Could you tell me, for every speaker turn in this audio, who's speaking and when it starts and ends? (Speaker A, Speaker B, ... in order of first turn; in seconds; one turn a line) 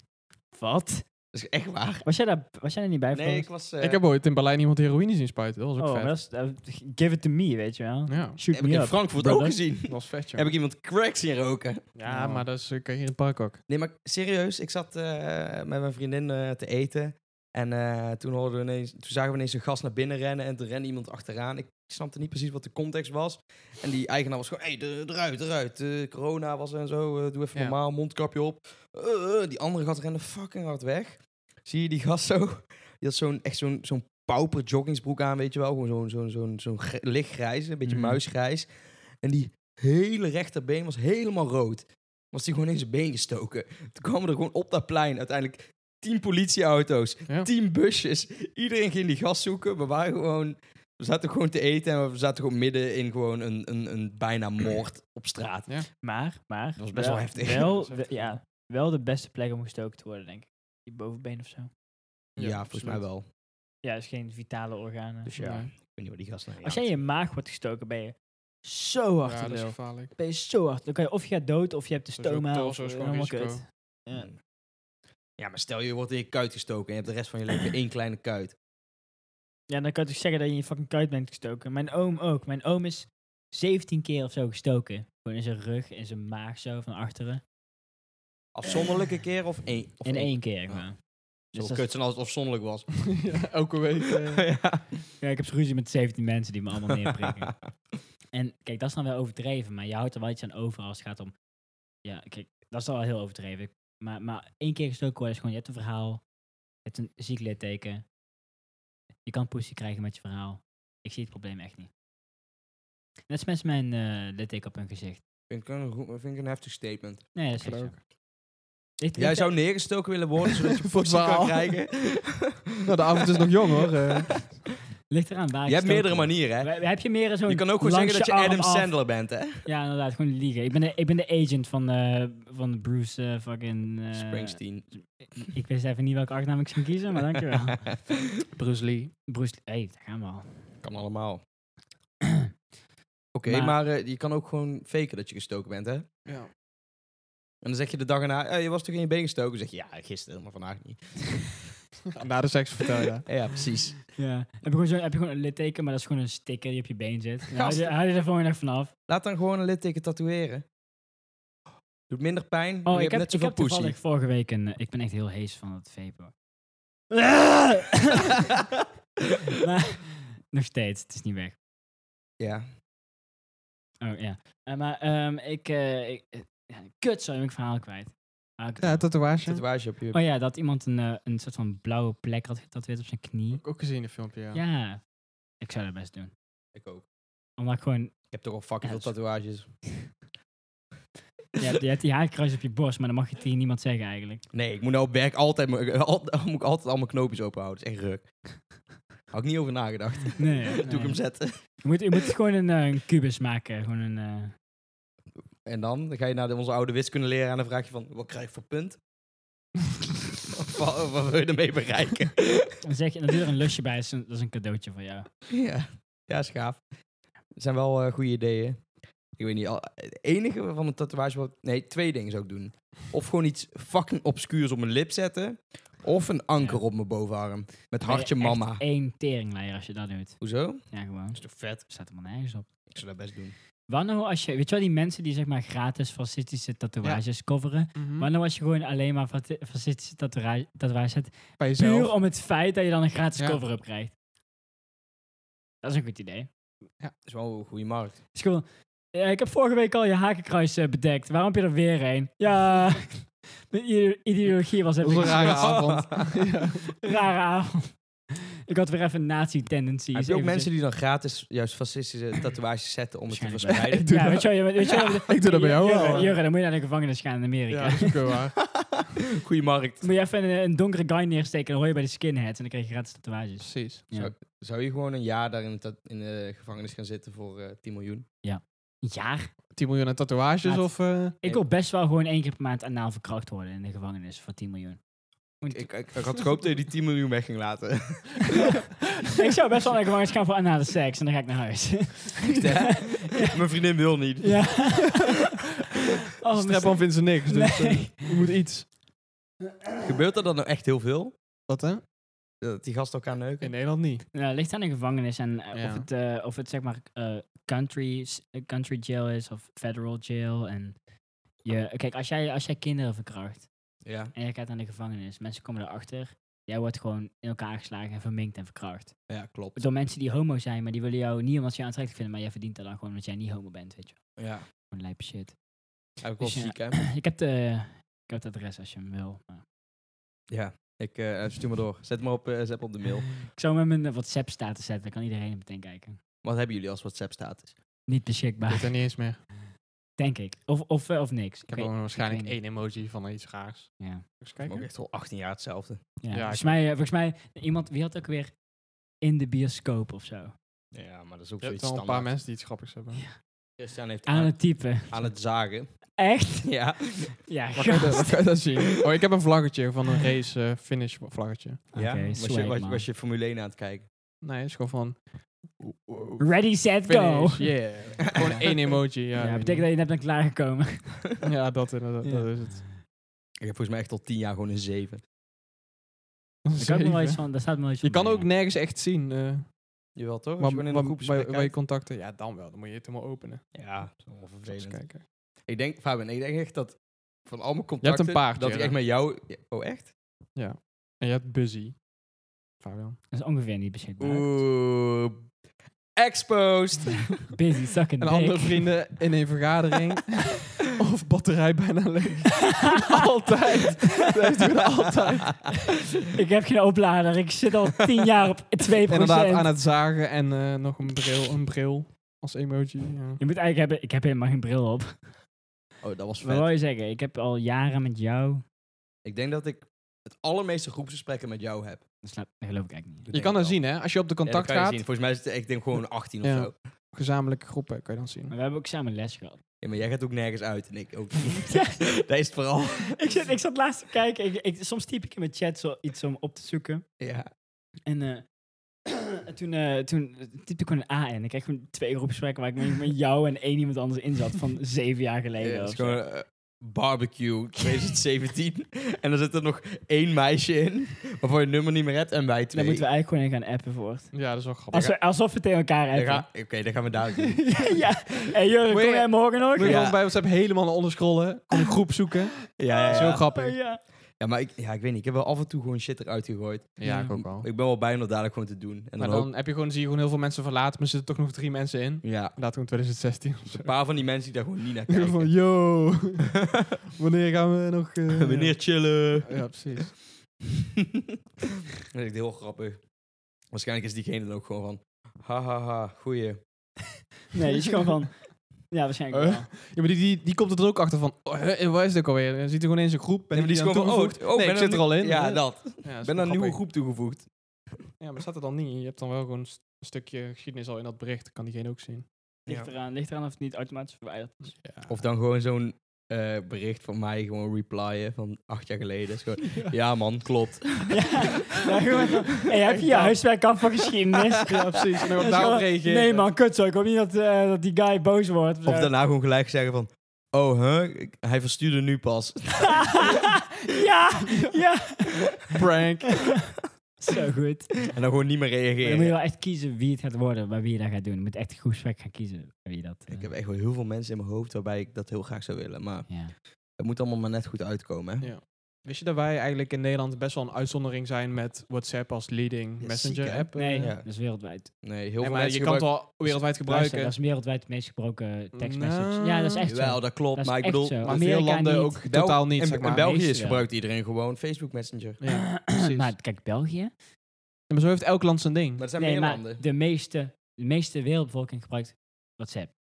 Speaker A: 0.5-1.1
Speaker B: 1.3-2.0
Speaker A: 2.0-3.5
Speaker B: 3.1-4.0
Speaker C: 3.8-6.1
Speaker A: 5.8-9.6
Speaker C: 8.1-8.4
Speaker B: 8.5-11.8
Speaker C: 9.9-10.5
Speaker C: 11.9-13.6
Speaker A: 12.1-12.4
Speaker B: 13.7-55.7
Speaker A: 37.9-38.2
Speaker A: 56.0-61.7
Speaker B: 56.8-57.7
Speaker C: 57.6-58.3
Speaker C: 62.4-63.0
Speaker B: 62.4-63.3
Speaker A: 63.8-65.3
Speaker B: 65.3-66.9
Speaker C: 65.4-65.7
Speaker A: 66.6-74.3
Speaker C: 69.2-70.1
Speaker C: 72.2-73.7
Speaker B: 74.1-74.4
Speaker B: 75.4-78.5
Speaker A: 79.7-87.4
Speaker B: 88.5-91.0
Speaker A: 90.0-91.9
Speaker B: 91.5-93.2
Speaker C: 93.2-94.5
Speaker B: 94.3-95.0
Speaker A: 95.2-97.5
Speaker B: 97.2-97.5
Speaker A: 98.3-101.3
Speaker A: 102.0-106.2
Speaker A: 106.8-108.0
Speaker A: 109.3-111.9
Speaker A: 113.3-115.2
Speaker B: 115.5-117.3
Speaker A: 117.3-118.0
Speaker C: 117.6-118.0
Speaker A: 119.0-119.8
Speaker B: 119.2-123.3
Speaker C: 120.9-121.8
Speaker C: 122.8-124.5
Speaker A: 125.1-129.0
Speaker B: 125.7-129.7
Speaker A: 129.6-134.6
Speaker B: 134.1-134.9
Speaker A: 135.4-137.8
Speaker B: 137.5-138.2
Speaker C: 138.6-139.1
Speaker A: 139.3-140.7
Speaker B: 140.8-141.4
Speaker B: 143.3-146.3
Speaker A: 143.5-143.8
Speaker B: 147.6-151.7
Speaker C: 152.1-153.3
Speaker B: 153.3-154.0
Speaker A: 154.1-158.9
Speaker B: 157.5-157.9
Speaker B: 159.1-160.7
Speaker B: 162.1-164.0
Speaker A: 162.9-166.3
Speaker A: 167.1-168.2
Speaker A: 169.6-171.6
Speaker B: 172.4-172.7
Speaker A: 174.0-179.2
Speaker C: 178.8-179.6
Speaker B: 179.4-180.2
Speaker A: 180.1-183.6
Speaker C: 183.6-184.6
Speaker A: 184.5-185.0
Speaker A: 185.6-186.3
Speaker B: 186.8-187.1
Speaker A: 187.6-189.2
Speaker B: 188.3-189.7
Speaker A: 191.6-194.4
Speaker B: 194.5-198.4
Speaker B: 199.3-201.8
Speaker A: 200.4-204.5
Speaker B: 205.7-209.0
Speaker B: 210.5-212.8
Speaker A: 212.8-215.3
Speaker B: 215.5-216.8
Speaker B: 217.5-228.8
Speaker A: 228.0-232.7
Speaker B: 230.4-231.8
Speaker B: 232.9-233.6
Speaker A: 233.9-244.1
Speaker C: 237.9-238.3
Speaker C: 241.6-242.2
Speaker A: 245.8-246.5
Speaker B: 247.2-248.2
Speaker A: 248.3-256.1
Speaker C: 255.0-256.9
Speaker B: 255.2-256.3
Speaker A: 257.0-258.0
Speaker A: 258.7-260.7
Speaker B: 260.1-264.2
Speaker A: 263.3-268.2
Speaker C: 263.7-266.4
Speaker C: 267.7-268.6
Speaker B: 268.6-270.1
Speaker A: 270.0-274.3
Speaker C: 273.6-274.0
Speaker B: 274.1-278.2
Speaker A: 278.4-279.5
Speaker C: 279.8-281.4
Speaker A: 280.6-285.0
Speaker A: 285.6-286.1
Speaker B: 285.7-288.8
Speaker A: 289.3-293.6
Speaker B: 292.4-295.1
Speaker A: 294.4-295.4
Speaker A: 296.4-298.4
Speaker C: 296.5-298.9
Speaker B: 300.0-301.3
Speaker C: 301.7-302.0
Speaker B: 302.6-303.7
Speaker C: 303.6-304.2
Speaker A: 304.3-311.0
Speaker C: 305.7-306.1
Speaker A: 311.6-313.7
Speaker B: 314.0-314.3
Speaker A: 314.3-325.6
Speaker B: 319.3-319.8
Speaker B: 324.4-324.7
Speaker B: 326.2-327.0
Speaker A: 326.4-329.6
Speaker B: 330.5-333.4
Speaker A: 333.5-336.2
Speaker B: 336.4-337.8
Speaker A: 338.1-339.0
Speaker C: 338.7-339.5
Speaker A: 340.2-342.6
Speaker C: 341.7-344.9
Speaker A: 344.0-344.2
Speaker B: 344.6-346.0
Speaker A: 346.2-348.6
Speaker C: 346.3-346.8
Speaker A: 349.2-350.6
Speaker B: 350.9-352.4
Speaker C: 351.6-353.2
Speaker A: 353.1-353.4
Speaker B: 353.8-357.4
Speaker A: 354.3-355.4
Speaker A: 356.2-356.8
Speaker A: 357.4-358.4
Speaker C: 357.8-361.9
Speaker A: 361.9-363.1
Speaker B: 361.9-364.1
Speaker C: 364.4-369.9
Speaker A: 366.4-367.8
Speaker B: 368.3-368.7
Speaker A: 369.4-371.2
Speaker C: 371.4-372.9
Speaker A: 372.2-372.8
Speaker B: 373.6-375.2
Speaker C: 376.7-379.8
Speaker A: 376.8-378.5
Speaker B: 380.1-381.7
Speaker C: 380.6-383.7
Speaker B: 383.7-385.0
Speaker C: 384.7-385.2
Speaker B: 385.6-390.1
Speaker C: 388.0-388.9
Speaker C: 390.6-392.0
Speaker C: 392.8-393.2
Speaker A: 393.3-394.6
Speaker B: 394.2-395.4
Speaker B: 396.2-397.3
Speaker A: 397.5-398.9
Speaker C: 398.2-405.7
Speaker A: 402.8-403.1
Speaker A: 406.3-409.8
Speaker C: 409.1-413.4
Speaker A: 413.4-415.3
Speaker B: 416.0-416.7
Speaker A: 416.4-418.6
Speaker B: 419.2-422.0
Speaker A: 422.2-423.3
Speaker B: 423.3-423.8
Speaker C: 423.3-425.0
Speaker B: 424.4-426.8
Speaker C: 426.4-428.5
Speaker A: 428.5-429.6
Speaker B: 429.8-433.4
Speaker A: 431.6-432.0
Speaker A: 433.1-437.1
Speaker B: 437.2-437.5
Speaker A: 438.1-438.5
Speaker A: 439.1-446.2
Speaker B: 445.6-453.1
Speaker A: 452.7-456.5
Speaker C: 454.3-455.1
Speaker B: 454.9-455.2
Speaker B: 456.1-457.9
Speaker C: 457.6-457.9
Speaker A: 457.7-460.1
Speaker C: 458.9-463.8
Speaker B: 459.8-460.2
Speaker B: 462.8-463.4
Speaker A: 462.9-464.0
Speaker B: 464.4-469.5
Speaker C: 467.0-467.7
Speaker A: 467.0-467.4
Speaker C: 469.2-473.9
Speaker B: 472.2-472.6
Speaker B: 473.7-475.5
Speaker C: 475.1-476.6
Speaker B: 476.6-476.9
Speaker C: 477.2-480.2
Speaker B: 478.3-480.0
Speaker B: 482.0-483.0
Speaker B: 483.7-486.6
Speaker A: 487.5-489.7
Speaker C: 489.3-496.8
Speaker B: 493.5-497.5
Speaker C: 498.2-502.2
Speaker B: 502.7-502.9
Speaker A: 502.7-504.8
Speaker C: 504.8-505.2
Speaker B: 505.1-511.3
Speaker A: 511.1-519.1
Speaker C: 512.9-513.4
Speaker C: 514.6-516.5
Speaker B: 518.9-523.4
Speaker A: 523.0-525.7
Speaker C: 525.7-526.8
Speaker A: 527.2-528.0
Speaker B: 528.1-529.4
Speaker A: 529.0-533.5
Speaker B: 533.3-538.5
Speaker A: 536.3-536.5
Speaker C: 538.4-544.1
Speaker B: 543.0-546.6
Speaker A: 543.7-544.9
Speaker C: 545.4-547.4
Speaker A: 546.5-552.2
Speaker C: 548.7-549.9
Speaker B: 549.9-551.4
Speaker C: 551.2-553.3
Speaker B: 552.2-555.4
Speaker A: 553.0-553.9
Speaker C: 555.4-556.3
Speaker A: 555.5-557.1
Speaker C: 557.9-559.0
Speaker B: 559.0-559.8
Speaker A: 559.2-562.9